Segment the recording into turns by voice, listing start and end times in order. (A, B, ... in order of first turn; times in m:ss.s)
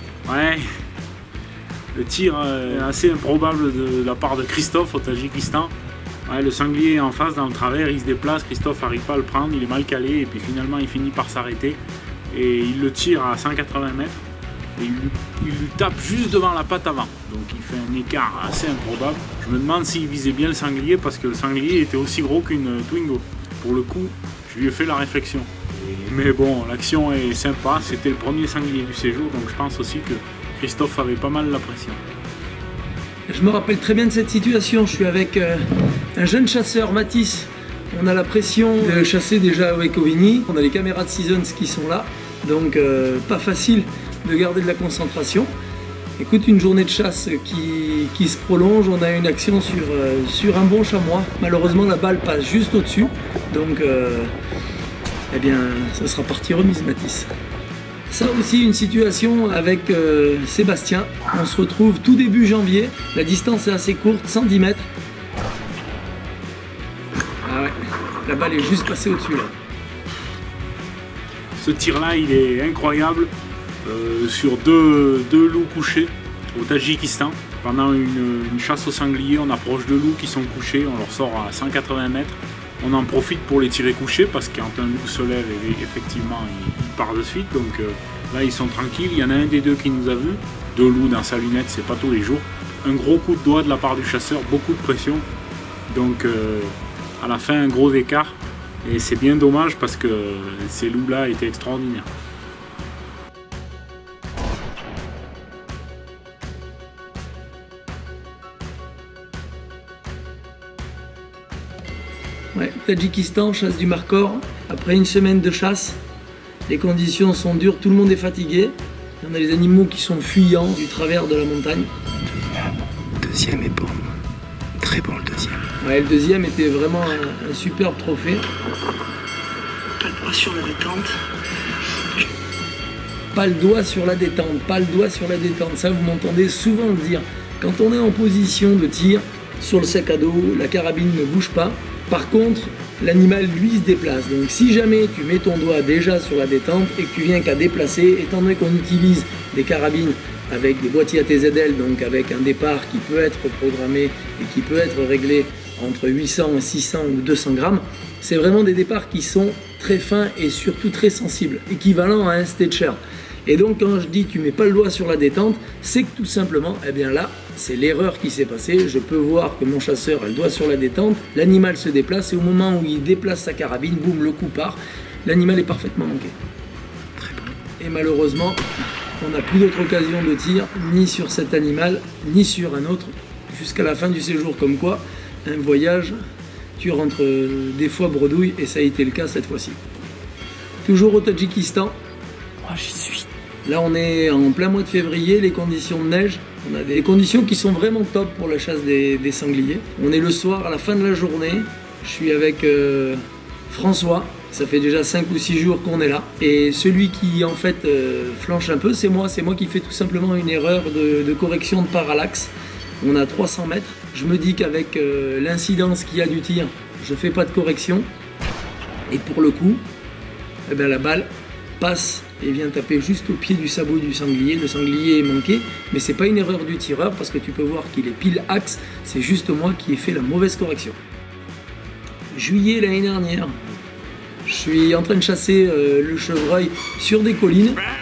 0:00.2-0:00.6 A
0:01.9-0:05.7 A
0:06.2-0:11.8 A
0:12.3-0:14.2 A
0:14.8-0:32.0 A
0:33.3-0:45.5 B
0:46.2-0:54.3 B
0:55.3-0:57.3 B
0:58.1-1:04.9 B
1:07.4-1:09.5 B
1:11.6-1:13.3 A
1:13.8-1:35.2 A
1:35.9-1:42.1 A
1:52.5-1:56.0 B
1:56.7-2:01.9 B
2:03.2-2:04.1 C
2:04.8-2:05.6 C
2:05.8-2:08.4 B
2:10.0-2:11.1 C
2:13.3-2:56.3 B
2:57.2-2:57.5 C
2:57.8-2:58.6 B
2:59.2-3:06.2 B
3:06.8-3:09.8 B
3:10.8-3:11.9 B
3:12.7-3:13.2 C
3:13.6-3:38.0 B
3:39.1-3:39.8 B
3:40.7-3:51.0 B
3:52.3-3:53.6 B
3:54.4-3:57.8 B